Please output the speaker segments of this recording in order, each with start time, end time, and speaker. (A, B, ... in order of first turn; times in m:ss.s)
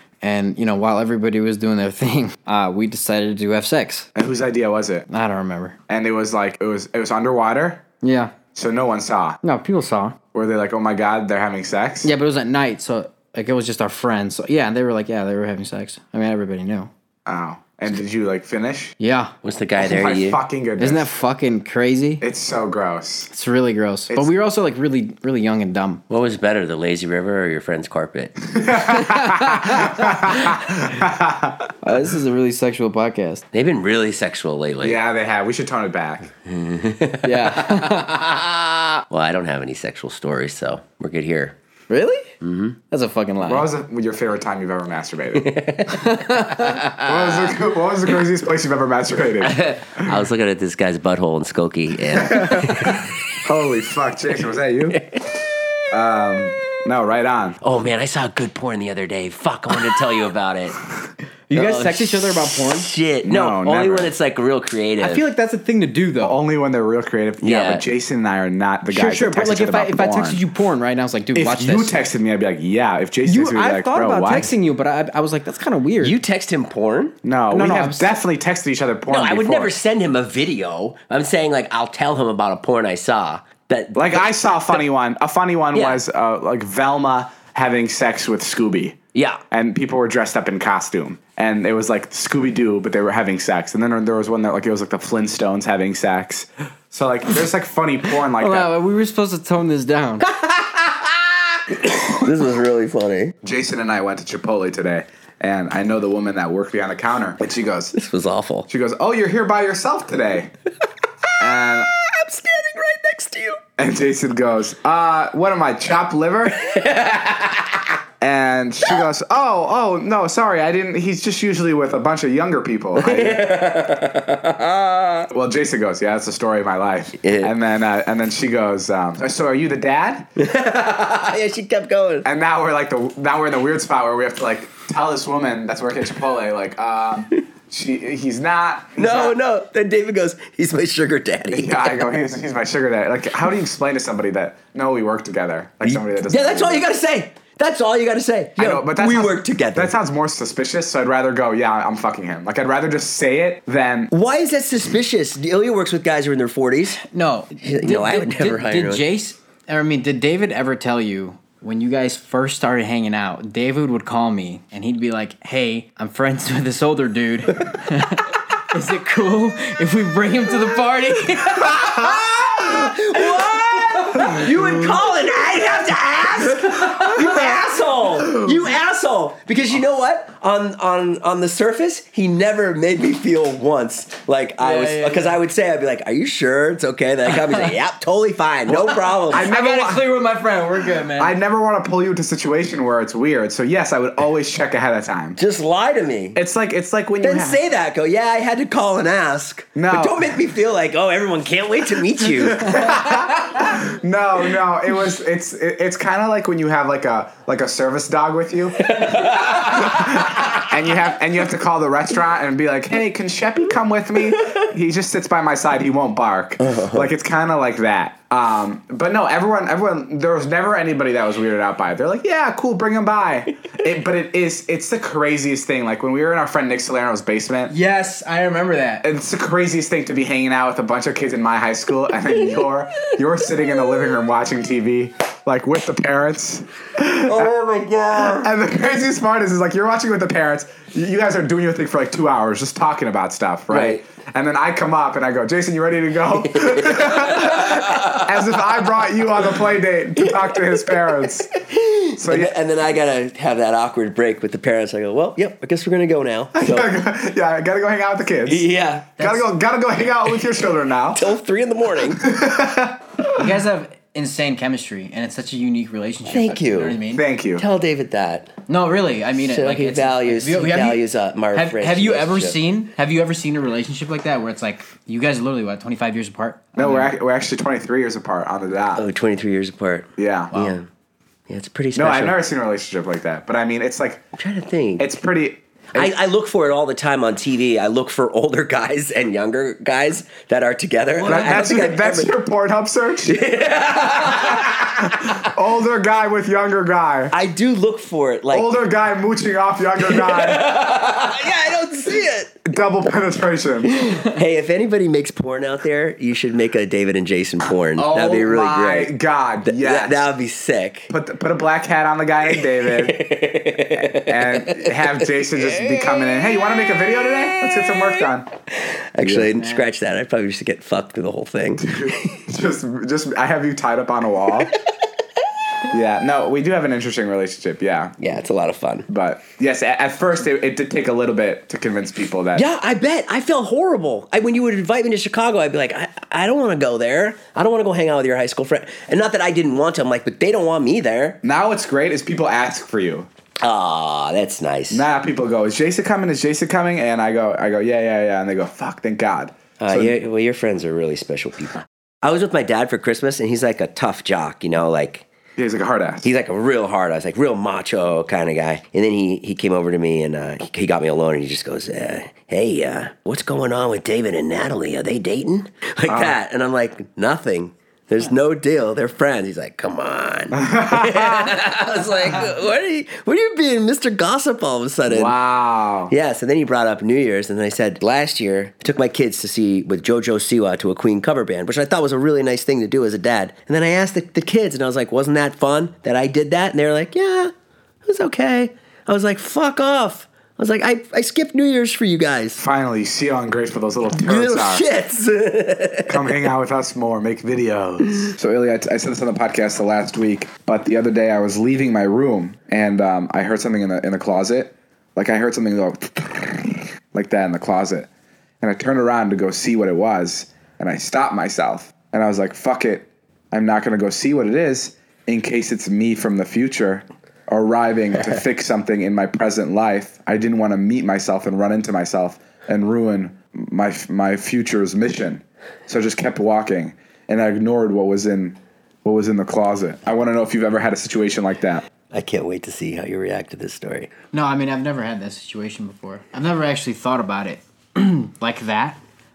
0:00.2-0:04.1 A
0:04.1-0:05.0 B
0:05.1-0:05.8 A
0:05.9-0:07.8 B
0:08.0-0:08.3 A
0:08.5-0:09.4 B
0:09.4-0:10.2 A
0:10.3-0:12.1 B
0:12.0-0:16.9 A
0:17.2-0:18.9 B
0:19.0-0:19.3 A
0:19.4-0:20.4 C
0:19.8-0:21.1 B
0:20.8-0:22.2 A
0:22.2-0:23.3 B
0:23.3-0:26.0 A
0:26.1-0:28.4 C
0:28.5-0:31.7 B
0:28.9-0:30.5 A
0:31.8-0:33.4 A
0:33.5-0:35.0 C
0:34.8-0:36.3 B
0:36.4-0:38.0 C
0:37.2-0:38.5 A
0:39.1-0:41.6 C
0:41.9-0:42.3 A
0:42.4-0:42.8 C
0:42.9-0:43.7 A
0:43.4-0:45.5 B
0:45.4-0:46.1 C
0:45.9-0:47.0 A
0:47.0-0:50.2 B
0:49.4-0:53.1 C
0:52.1-0:55.0 B
0:54.9-0:55.3 C
0:55.9-0:57.6 B
0:57.6-1:00.8 C
1:01.5-1:02.9 A
1:01.5-1:05.2 C
1:03.2-1:04.1 B
1:05.0-1:06.4 A
1:06.2-1:10.4 B
1:07.4-1:07.8 C
1:08.9-1:12.0 A
1:11.4-1:14.5 B
1:13.2-1:16.2 A
1:16.0-1:17.2 C
1:17.2-1:19.7 B
1:17.5-1:18.1 A
1:19.1-1:24.3 C
1:23.9-1:29.0 B
1:25.7-1:26.0 C
1:29.1-1:29.4 C
1:29.5-1:38.7 B
1:38.4-1:40.3 A
1:40.4-1:40.9 C
1:41.7-1:43.3 C
1:43.4-1:47.9 B
1:47.9-1:48.7 C
1:48.7-1:50.5 B
1:51.4-1:51.9 B
1:51.4-1:53.6 C
1:53.8-1:56.8 B
1:56.6-1:57.9 C
1:58.2-2:03.6 B
2:03.0-2:05.3 C
2:05.3-2:10.3 B
2:07.2-2:07.5 C
2:10.4-2:12.3 C
2:12.2-2:19.4 B
2:19.0-2:22.1 C
2:21.5-2:26.9 B
2:25.8-2:29.9 C
2:28.6-2:34.1 B
2:34.1-2:37.0 C
2:37.0-2:52.2 A
2:37.6-2:39.0 C
2:52.0-3:09.5 C
2:54.1-2:54.4 A
3:04.6-3:05.3 A
3:08.7-3:11.4 A
3:09.3-3:10.1 B
3:11.2-3:15.4 B
3:15.4-3:16.4 C
3:16.4-3:17.6 B
3:17.2-3:22.9 C
3:19.8-3:20.4 B
3:22.4-3:47.7 B
3:28.8-3:30.6 C
3:36.6-3:37.1 C
3:47.7-3:49.1 A
3:49.0-3:57.5 B
3:57.2-3:58.5 C
3:58.2-4:11.6 B
4:03.7-4:04.0 C
4:06.3-4:08.4 C
4:10.3-4:16.9 C
4:12.2-4:12.6 B
4:16.6-4:18.6 B
4:18.4-4:19.1 C
4:19.2-4:21.3 B
4:19.2-4:19.4 A
4:21.1-4:22.2 C
4:22.2-4:23.0 B
4:23.4-4:27.2 A
4:26.3-4:27.0 C
4:27.1-4:27.6 B
4:27.6-4:28.5 C
4:28.7-4:31.0 A
4:29.4-4:32.6 C
4:31.5-4:37.1 A
4:36.7-4:39.1 B
4:39.0-4:40.8 C
4:40.2-4:40.5 B
4:41.5-4:42.4 C
4:41.9-4:44.2 B
4:44.4-4:45.1 C
4:45.0-4:46.1 B
4:45.9-4:52.3 C
4:51.2-4:53.4 B
4:53.3-4:55.4 C
4:54.2-4:57.3 B
4:57.3-4:58.7 C
4:58.5-5:00.8 B
5:00.1-5:02.6 C
5:02.6-5:04.1 B
5:03.8-5:11.1 C
5:08.0-5:10.3 B
5:11.1-5:13.2 B
5:12.6-5:22.3 C
5:14.0-5:18.5 B
5:19.2-5:19.5 B
5:19.6-5:19.9 A
5:21.8-5:24.7 B
5:25.9-5:28.1 B
5:28.2-5:29.1 C
5:29.1-5:32.6 B
5:32.6-5:41.4 C
5:41.4-5:43.3 B
5:43.6-5:45.1 C
5:44.9-5:50.1 B
5:49.8-5:55.3 C
5:55.6-5:56.3 B
5:56.2-6:15.4 C
6:06.1-6:06.4 B
6:10.5-6:11.6 B
6:15.1-6:16.1 B
6:16.1-6:27.5 C
6:28.0-6:32.6 C
6:32.6-6:34.8 B
6:34.1-6:36.3 C
6:36.1-6:48.1 B
6:48.6-7:11.8 B
7:12.1-7:14.1 C
7:14.3-7:19.0 A